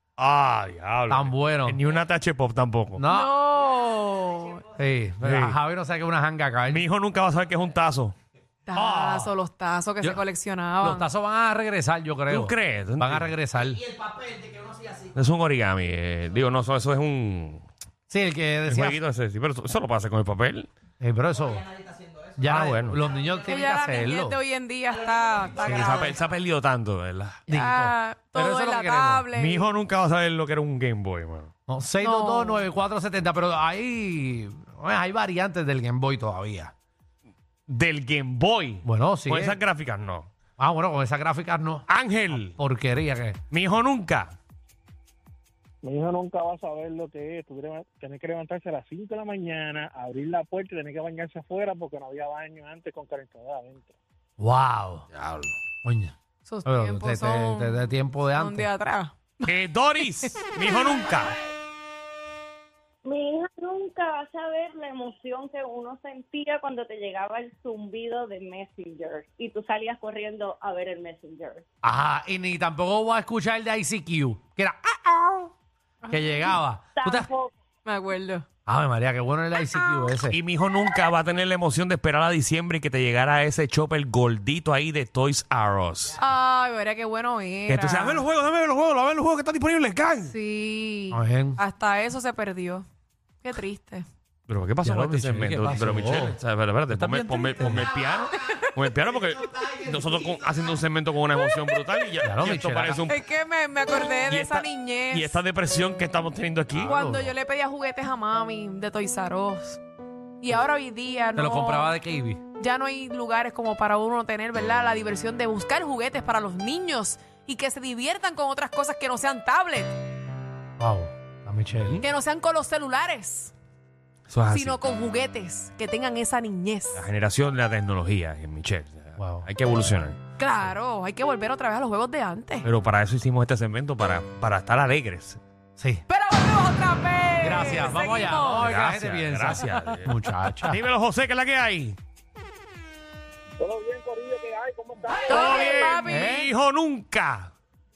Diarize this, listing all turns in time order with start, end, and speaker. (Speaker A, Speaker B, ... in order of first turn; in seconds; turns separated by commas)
Speaker A: 0.2-3.0, Speaker B: 1.1-1.8, Speaker B: 3.0-3.3, Speaker C: 3.1-4.6, Speaker B: 4.7-6.8, Speaker A: 5.2-5.5, Speaker A: 6.7-8.1, Speaker C: 8.7-11.1, Speaker B: 8.7-9.3, Speaker B: 10.8-13.8, Speaker A: 12.3-13.3, Speaker A: 15.1-17.6, Speaker B: 18.1-19.0, Speaker A: 18.7-20.7, Speaker B: 21.0-21.7, Speaker B: 22.4-24.4, Speaker A: 22.4-23.0, Speaker C: 23.4-26.2, Speaker A: 25.5-27.4, Speaker B: 27.5-29.3, Speaker C: 27.5-29.6, Speaker A: 29.3-31.5, Speaker B: 31.7-36.7, Speaker C: 32.0-32.6, Speaker A: 37.7-40.3, Speaker B: 38.8-39.6, Speaker B: 40.6-41.9, Speaker A: 41.9-42.5, Speaker B: 42.4-43.4, Speaker A: 43.5-44.3, Speaker D: 45.8-53.9, Speaker B: 54.4-55.1, Speaker A: 55.1-55.5, Speaker B: 55.8-56.1, Speaker C: 56.5-59.1, Speaker B: 56.6-58.7, Speaker A: 59.4-61.3, Speaker E: 63.0-71.6, Speaker B: 71.8-75.5, Speaker C: 76.1-76.5, Speaker B: 76.1-77.3, Speaker E: 77.0-77.5, Speaker C: 77.8-78.5, Speaker B: 78.7-80.4, Speaker A: 80.3-86.2, Speaker C: 86.2-88.2, Speaker A: 87.7-90.3, Speaker C: 90.2-92.8, Speaker B: 91.1-91.6, Speaker C: 93.4-94.0, Speaker A: 94.5-103.2, Speaker B: 94.8-96.3, Speaker B: 96.9-97.9, Speaker B: 102.2-103.0, Speaker C: 103.0-105.4, Speaker A: 104.1-106.9, Speaker B: 106.7-107.3, Speaker C: 106.8-109.8, Speaker C: 110.4-111.9, Speaker B: 111.3-112.4, Speaker C: 112.6-120.0, Speaker B: 120.8-122.0, Speaker C: 122.0-123.5, Speaker A: 124.3-124.8, Speaker C: 124.5-127.0, Speaker A: 126.9-130.2, Speaker B: 129.2-129.5, Speaker C: 130.4-132.7, Speaker A: 132.6-135.4, Speaker B: 135.8-136.0, Speaker C: 136.1-138.8, Speaker B: 137.4-140.8, Speaker A: 138.6-140.1, Speaker C: 139.6-140.0, Speaker A: 140.7-142.0, Speaker D: 143.6-145.6, Speaker C: 145.3-146.5, Speaker A: 145.3-147.5, Speaker B: 146.1-146.4